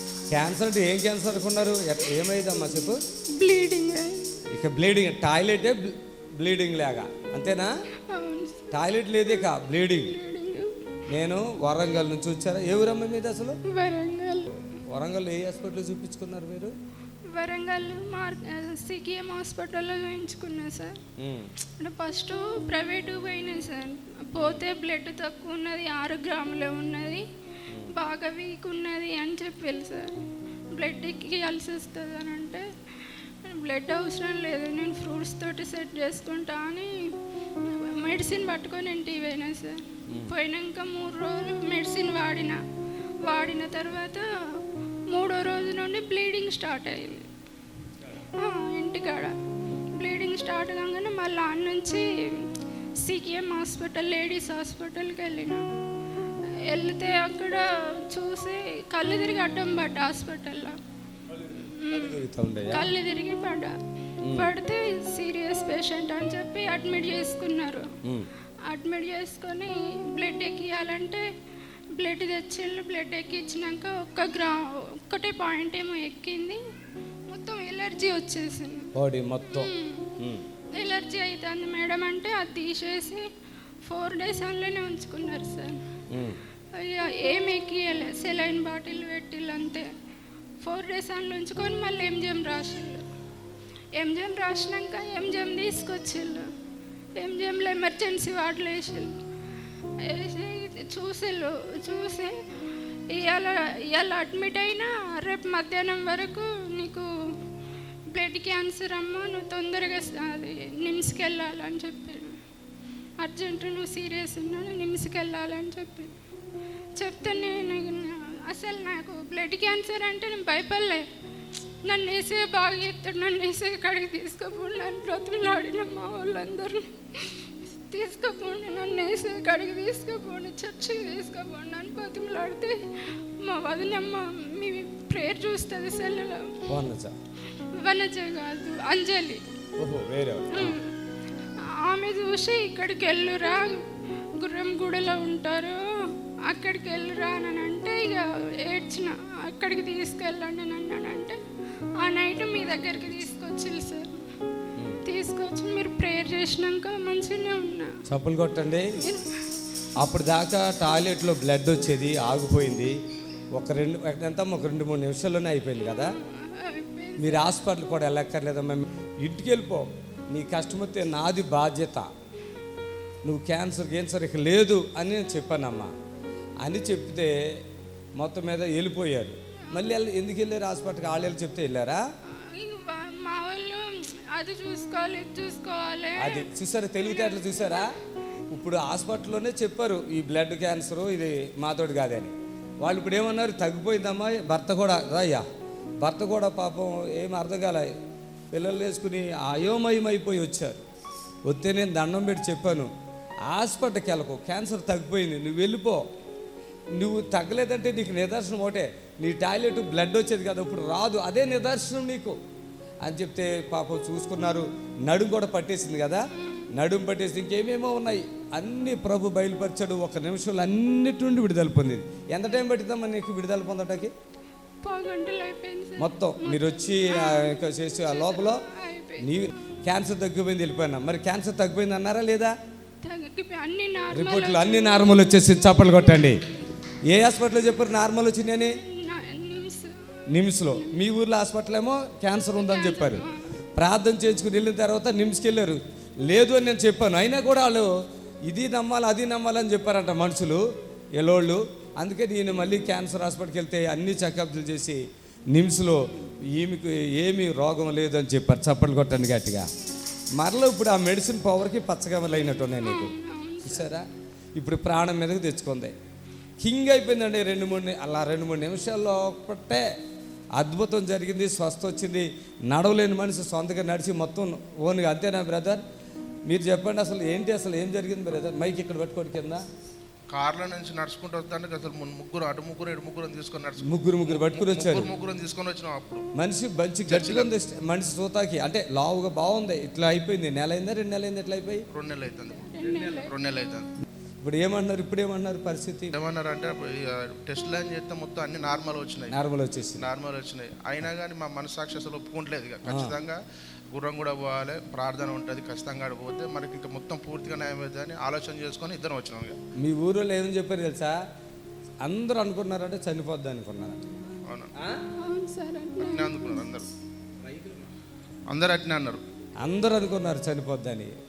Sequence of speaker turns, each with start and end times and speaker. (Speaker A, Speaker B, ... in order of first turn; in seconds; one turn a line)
Speaker A: 0.3-3.0
Speaker B: 3.3-4.2
Speaker A: 4.5-7.7
Speaker B: 8.1-8.7
Speaker A: 8.7-10.1
Speaker B: 9.9-10.7
Speaker A: 11.1-13.6
Speaker B: 13.7-14.5
Speaker A: 14.9-16.7
Speaker B: 17.3-20.9
Speaker A: 21.2-21.5
Speaker B: 21.8-27.2
Speaker B: 27.9-30.1
Speaker B: 30.7-32.6
Speaker B: 33.4-37.1
Speaker B: 37.6-42.6
Speaker B: 43.2-44.3
Speaker B: 45.1-47.3
Speaker B: 48.4-49.4
Speaker B: 50.0-52.5
Speaker B: 53.0-55.6
Speaker B: 56.7-60.8
Speaker B: 61.4-63.7
Speaker A: 61.9-62.9
Speaker A: 64.2-64.5
Speaker B: 64.3-67.9
Speaker B: 68.7-71.2
Speaker B: 72.0-76.6
Speaker B: 77.3-78.9
Speaker A: 79.0-80.4
Speaker B: 79.5-80.1
Speaker B: 80.8-83.2
Speaker B: 83.9-85.8
Speaker A: 86.1-86.4
Speaker B: 86.8-89.9
Speaker B: 90.6-93.0
Speaker B: 94.0-96.5
Speaker B: 97.2-99.1
Speaker B: 100.0-102.4
Speaker B: 103.1-107.1
Speaker B: 108.1-112.3
Speaker B: 113.2-116.1
Speaker B: 117.0-121.1
Speaker B: 121.8-136.6
Speaker A: 136.7-137.1
Speaker B: 137.8-139.4
Speaker A: 139.8-140.8
Speaker B: 140.5-140.9
Speaker B: 141.8-143.8
Speaker B: 144.4-145.8
Speaker B: 146.5-151.4
Speaker B: 152.0-154.2
Speaker A: 152.8-153.2
Speaker B: 155.1-157.9
Speaker A: 158.1-158.9
Speaker B: 159.0-159.3
Speaker A: 160.0-162.9
Speaker A: 163.6-166.1
Speaker B: 166.0-167.6
Speaker A: 167.2-172.1
Speaker A: 173.2-175.9
Speaker A: 176.6-177.3
Speaker A: 178.2-182.0
Speaker B: 182.5-186.5
Speaker A: 186.2-187.9
Speaker B: 187.0-187.9
Speaker A: 188.5-195.4
Speaker A: 196.0-197.9
Speaker A: 198.5-200.8
Speaker A: 201.5-202.9
Speaker A: 203.5-206.0
Speaker A: 207.0-212.4
Speaker A: 213.0-216.2
Speaker B: 216.3-216.7
Speaker A: 216.8-224.1
Speaker B: 224.8-229.3
Speaker A: 226.0-228.6
Speaker A: 229.2-232.6
Speaker B: 233.0-235.9
Speaker A: 234.1-236.4
Speaker A: 237.1-238.8
Speaker B: 238.8-239.9
Speaker A: 240.3-243.2
Speaker B: 240.7-241.0
Speaker B: 242.6-243.6
Speaker A: 243.8-247.9
Speaker A: 248.5-250.6
Speaker A: 251.2-255.0
Speaker A: 255.5-256.0
Speaker A: 256.6-259.7
Speaker A: 260.4-265.9
Speaker B: 262.8-263.9
Speaker A: 266.6-269.9
Speaker A: 270.6-275.8
Speaker A: 276.5-279.6
Speaker C: 280.3-286.3
Speaker A: 283.8-285.1
Speaker A: 286.4-291.8
Speaker C: 287.1-287.5
Speaker C: 291.9-293.9
Speaker B: 292.6-293.3
Speaker A: 294.4-296.1
Speaker C: 296.1-299.4
Speaker A: 299.3-300.1
Speaker C: 300.0-303.4
Speaker A: 302.9-303.1
Speaker C: 303.9-309.6
Speaker A: 309.8-311.2
Speaker A: 312.0-314.1
Speaker B: 315.2-316.7
Speaker C: 316.0-316.9
Speaker C: 318.5-319.2
Speaker A: 319.6-321.1